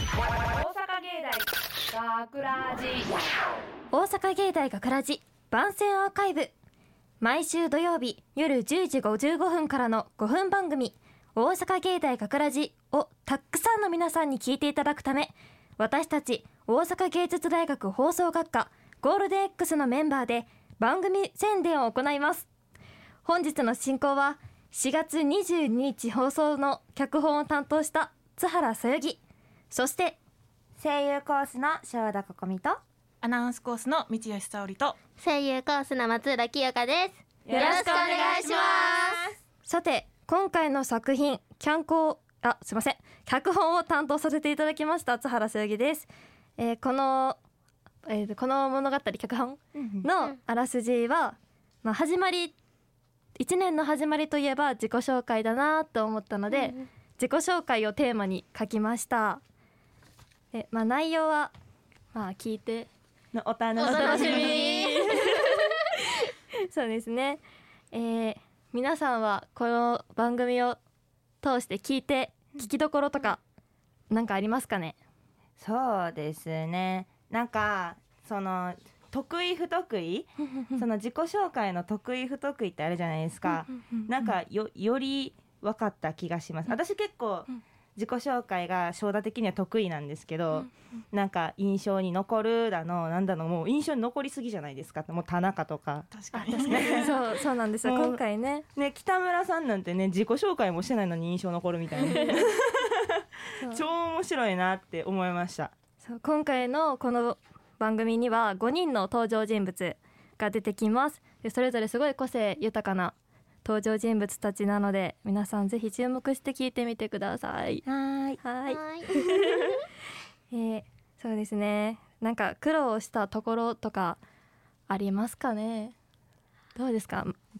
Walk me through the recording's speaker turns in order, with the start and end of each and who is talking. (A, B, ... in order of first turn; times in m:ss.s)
0:00.5-0:01.4 A
0:02.0-0:03.1 A
0:03.9-0:06.5 B
0:07.2-0:22.5 B
0:23.2-0:30.2 B
0:30.8-0:32.8 C
0:33.2-0:35.0 D
0:35.2-0:39.2 E
0:37.4-0:39.2 C
0:37.5-0:38.5 B
0:39.6-0:47.4 B
0:48.0-0:52.6 B
0:49.8-0:50.1 C
0:53.4-0:59.4 B
1:00.5-1:01.5 B
1:02.1-1:02.9 B
1:03.3-1:05.1 C
1:03.8-1:05.2 E
1:03.8-1:05.6 B
1:06.6-1:10.8 B
1:11.4-1:13.4 B
1:14.1-1:15.0 B
1:15.6-1:36.1 C
1:36.1-1:36.8 D
1:36.3-1:38.6 B
1:36.6-1:37.2 C
1:37.8-1:38.2 C
1:38.7-1:45.7 C
1:42.0-1:42.4 B
1:43.6-1:43.8 B
1:46.0-1:57.8 B
1:58.4-1:59.7 B
1:58.6-1:59.5 E
2:00.5-2:04.2 B
2:04.9-2:05.9 B
2:06.7-2:07.4 B